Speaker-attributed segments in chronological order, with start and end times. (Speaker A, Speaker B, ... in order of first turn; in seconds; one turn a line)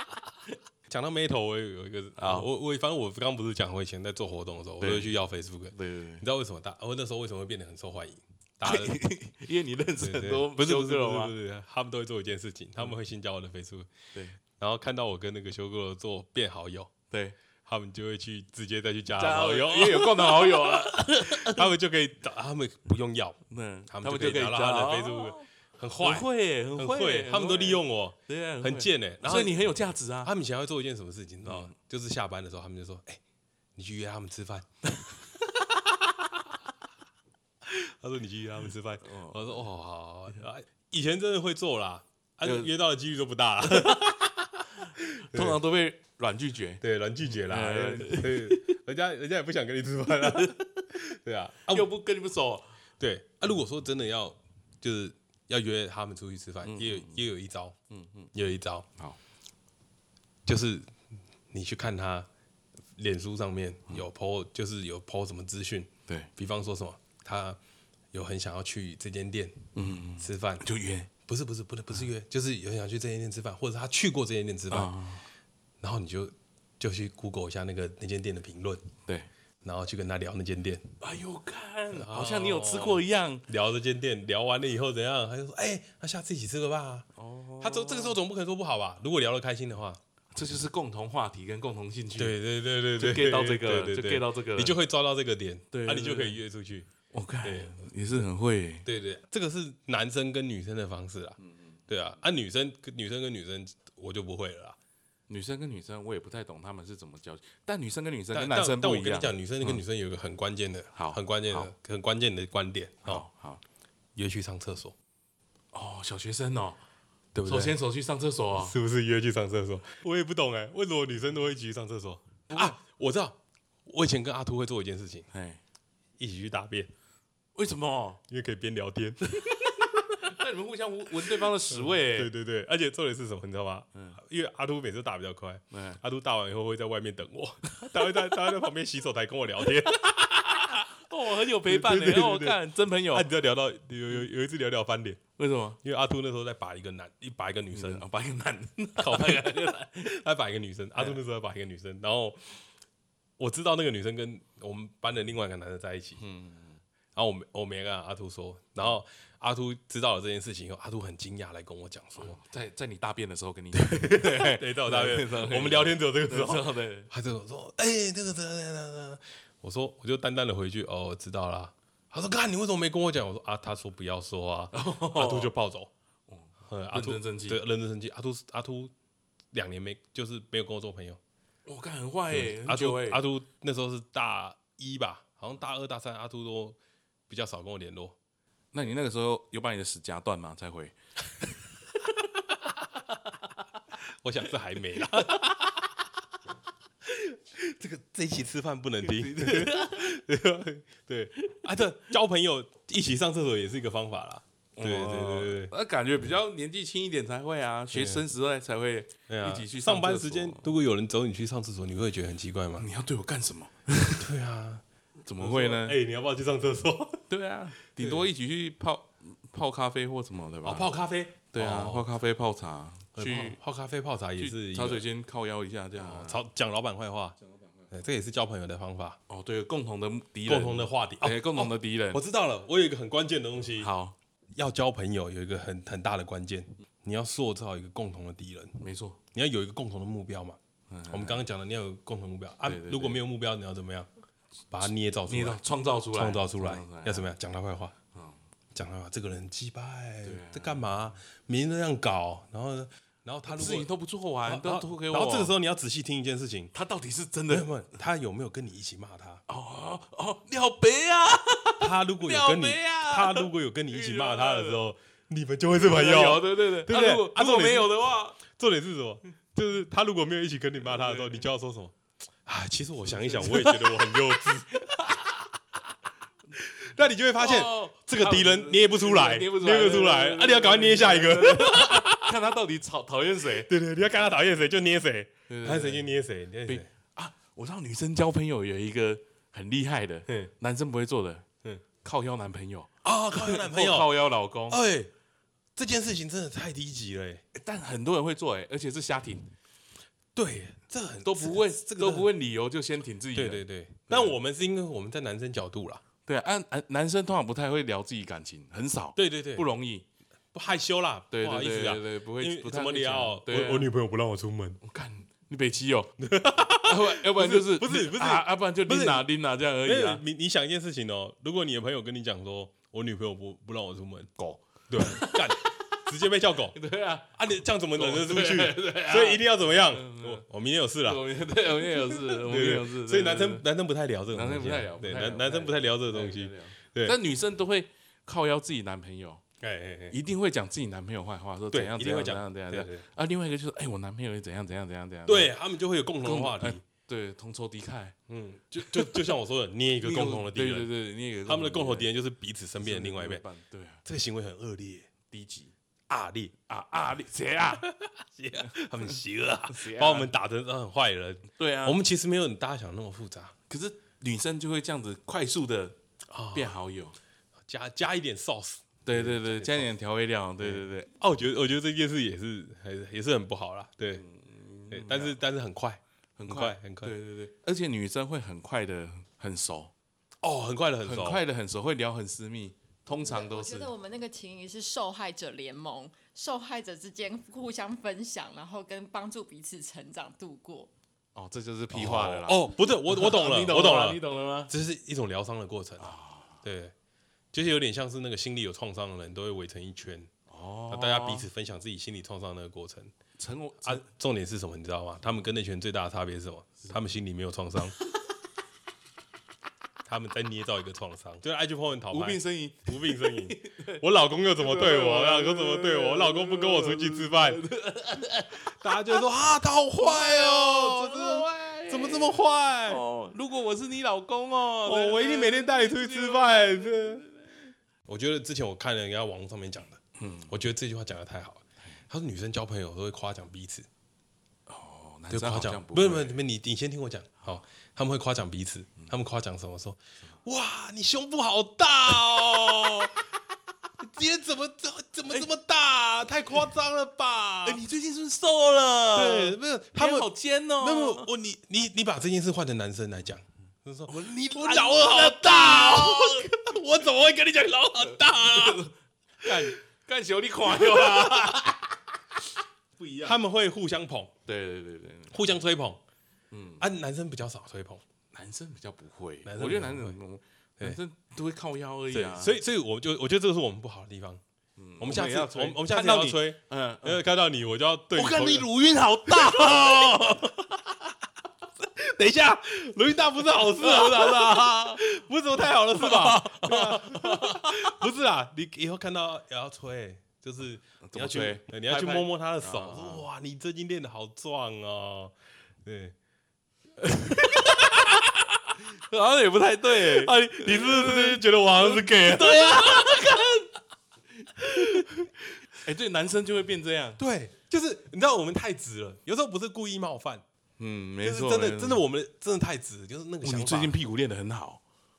Speaker A: 0.9-9.0
Speaker B: 2.2-2.5
Speaker B: 4.8-5.1
Speaker B: 5.7-6.2
Speaker B: 8.6-11.3
Speaker A: 10.0-13.9
Speaker A: 14.6-16.9
Speaker B: 17.1-17.4
Speaker A: 17.6-29.6
Speaker B: 19.2-21.7
Speaker B: 23.5-25.5
Speaker B: 26.0-30.3
Speaker A: 30.2-33.2
Speaker B: 31.4-31.7
Speaker A: 33.8-34.7
Speaker A: 37.6-45.6
Speaker B: 39.0-39.6
Speaker B: 42.4-42.7
Speaker B: 43.6-44.1
Speaker B: 45.2-48.8
Speaker A: 46.8-51.9
Speaker B: 50.1-50.7
Speaker B: 51.7-52.7
Speaker A: 53.0-57.8
Speaker B: 56.6-57.2
Speaker B: 57.9-58.3
Speaker A: 58.3-58.9
Speaker A: 60.5-60.9
Speaker A: 61.5-62.3
Speaker A: 63.0-67.6
Speaker A: 68.1-70.7
Speaker B: 69.8-71.1
Speaker A: 71.2-75.0
Speaker B: 74.7-75.2
Speaker A: 75.8-78.9
Speaker A: 79.6-81.0
Speaker B: 81.0-83.5
Speaker A: 81.9-87.1
Speaker B: 87.2-88.2
Speaker A: 87.6-90.0
Speaker B: 90.3-92.4
Speaker A: 92.2-96.9
Speaker B: 93.0-94.8
Speaker B: 95.7-96.4
Speaker B: 97.1-98.9
Speaker A: 97.4-97.9
Speaker A: 98.8-104.8
Speaker B: 105.3-109.8
Speaker A: 108.3-113.2
Speaker B: 111.0-111.7
Speaker B: 113.0-113.6
Speaker A: 114.2-115.0
Speaker B: 115.7-116.8
Speaker A: 117.3-117.8
Speaker B: 117.5-118.8
Speaker A: 118.6-123.4
Speaker B: 122.5-122.8
Speaker A: 123.9-125.3
Speaker B: 125.3-125.6
Speaker A: 126.2-126.9
Speaker B: 127.5-128.2
Speaker A: 128.3-130.3
Speaker B: 130.2-132.3
Speaker A: 131.3-145.2
Speaker B: 135.7-136.0
Speaker B: 140.0-143.3
Speaker B: 145.4-145.8
Speaker A: 145.8-148.1
Speaker B: 147.7-150.1
Speaker A: 149.0-152.6
Speaker A: 153.4-156.2
Speaker B: 156.2-156.8
Speaker A: 157.1-162.4
Speaker B: 162.2-167.1
Speaker A: 163.8-175.9
Speaker B: 174.7-175.5
Speaker B: 176.3-177.6
Speaker A: 176.7-178.9
Speaker A: 179.5-181.2
Speaker B: 181.7-183.2
Speaker A: 182.3-186.8
Speaker A: 187.3-188.2
Speaker B: 188.7-190.9
Speaker A: 194.1-195.7
Speaker B: 195.1-195.5
Speaker A: 197.1-205.7
Speaker B: 199.0-200.2
Speaker B: 204.8-210.7
Speaker A: 207.9-208.2
Speaker A: 209.3-212.9
Speaker B: 212.8-214.3
Speaker A: 214.2-214.8
Speaker B: 215.3-216.0
Speaker A: 215.4-217.2
Speaker B: 217.3-220.9
Speaker A: 218.0-218.3
Speaker A: 220.6-222.1
Speaker B: 221.5-223.6
Speaker A: 223.2-225.0
Speaker B: 224.4-226.4
Speaker A: 226.0-227.4
Speaker A: 227.9-229.2
Speaker B: 229.3-232.2
Speaker A: 230.5-233.9
Speaker B: 233.8-234.2
Speaker A: 234.6-238.8
Speaker B: 238.8-239.2
Speaker A: 239.3-244.1
Speaker B: 240.9-241.4
Speaker B: 242.7-243.2
Speaker A: 244.7-245.6
Speaker B: 245.3-247.3
Speaker A: 246.1-247.9
Speaker A: 248.8-253.9
Speaker B: 250.2-250.9
Speaker B: 253.5-255.5
Speaker A: 254.4-256.7
Speaker B: 256.7-257.7
Speaker A: 257.5-259.4
Speaker B: 259.5-264.9
Speaker A: 261.8-271.9
Speaker B: 265.7-268.4
Speaker B: 270.8-271.5
Speaker A: 272.5-275.1
Speaker B: 273.0-275.2
Speaker A: 276.6-282.3
Speaker B: 277.4-283.7
Speaker A: 283.6-286.9
Speaker B: 285.5-286.1
Speaker B: 286.7-291.5
Speaker B: 292.0-294.8
Speaker A: 293.0-294.1
Speaker A: 294.7-295.1
Speaker A: 295.8-297.4
Speaker B: 297.5-299.5
Speaker A: 300.4-302.3
Speaker B: 301.2-304.4
Speaker A: 303.3-306.0
Speaker B: 306.3-310.1
Speaker A: 309.2-309.7
Speaker A: 310.5-314.8
Speaker B: 311.3-313.9
Speaker B: 314.8-316.1
Speaker A: 316.2-319.3
Speaker B: 316.9-320.2
Speaker A: 319.8-324.4
Speaker B: 324.4-326.0
Speaker A: 324.9-326.8
Speaker B: 326.7-327.4
Speaker A: 327.3-337.2
Speaker B: 327.9-330.5
Speaker B: 331.0-333.6
Speaker B: 334.3-339.4
Speaker A: 339.6-340.2
Speaker B: 340.1-345.5
Speaker A: 341.7-343.1
Speaker A: 345.3-346.8
Speaker B: 346.2-348.2
Speaker A: 348.3-350.9
Speaker B: 348.8-349.4
Speaker B: 350.0-352.1
Speaker A: 351.5-353.4
Speaker B: 352.8-354.0
Speaker A: 354.1-355.1
Speaker B: 355.3-355.7
Speaker A: 356.1-356.7
Speaker B: 356.7-357.8
Speaker A: 357.8-363.6
Speaker B: 358.6-360.3
Speaker B: 361.5-362.0
Speaker B: 363.7-366.0
Speaker A: 366.3-366.8
Speaker B: 366.5-367.2
Speaker A: 367.7-369.9
Speaker B: 369.1-371.1
Speaker A: 370.6-374.3
Speaker B: 374.2-375.4
Speaker A: 374.9-377.1
Speaker B: 376.4-379.9
Speaker A: 380.4-381.4
Speaker B: 381.0-383.9
Speaker C: 383.1-390.9
Speaker B: 391.4-394.7
Speaker A: 391.9-396.9
Speaker B: 396.0-396.6
Speaker A: 397.5-400.3
Speaker B: 400.5-401.5
Speaker A: 400.9-403.1
Speaker B: 403.4-404.0
Speaker A: 403.8-408.0
Speaker A: 410.1-417.6
Speaker B: 412.1-414.0
Speaker B: 414.6-419.2
Speaker A: 418.7-423.0
Speaker B: 419.9-427.6
Speaker A: 424.8-427.2
Speaker A: 428.1-433.9
Speaker B: 430.2-430.5
Speaker B: 434.7-436.4
Speaker A: 435.3-443.2
Speaker B: 442.6-442.9
Speaker A: 444.0-447.8
Speaker B: 447.6-451.3
Speaker A: 449.1-458.9
Speaker B: 454.1-456.5
Speaker B: 458.0-461.9
Speaker A: 459.4-459.8
Speaker A: 460.7-461.7
Speaker B: 463.0-463.4
Speaker A: 463.2-464.3
Speaker B: 464.5-465.3
Speaker A: 465.3-466.0
Speaker B: 466.5-466.9
Speaker A: 466.8-468.0
Speaker B: 468.3-472.6
Speaker A: 469.4-470.2
Speaker A: 472.1-474.4
Speaker B: 474.8-477.2
Speaker A: 475.0-478.7
Speaker B: 478.1-480.6
Speaker A: 479.2-480.8
Speaker A: 481.8-495.3
Speaker B: 483.6-485.0
Speaker B: 485.8-487.9
Speaker B: 491.0-493.3
Speaker A: 495.9-496.1
Speaker A: 497.1-498.3
Speaker B: 497.2-503.7
Speaker A: 499.9-503.4
Speaker B: 504.4-505.1
Speaker A: 504.6-505.3
Speaker B: 505.8-507.2
Speaker A: 507.2-510.4
Speaker B: 510.8-512.0
Speaker A: 511.2-514.0
Speaker B: 513.4-514.8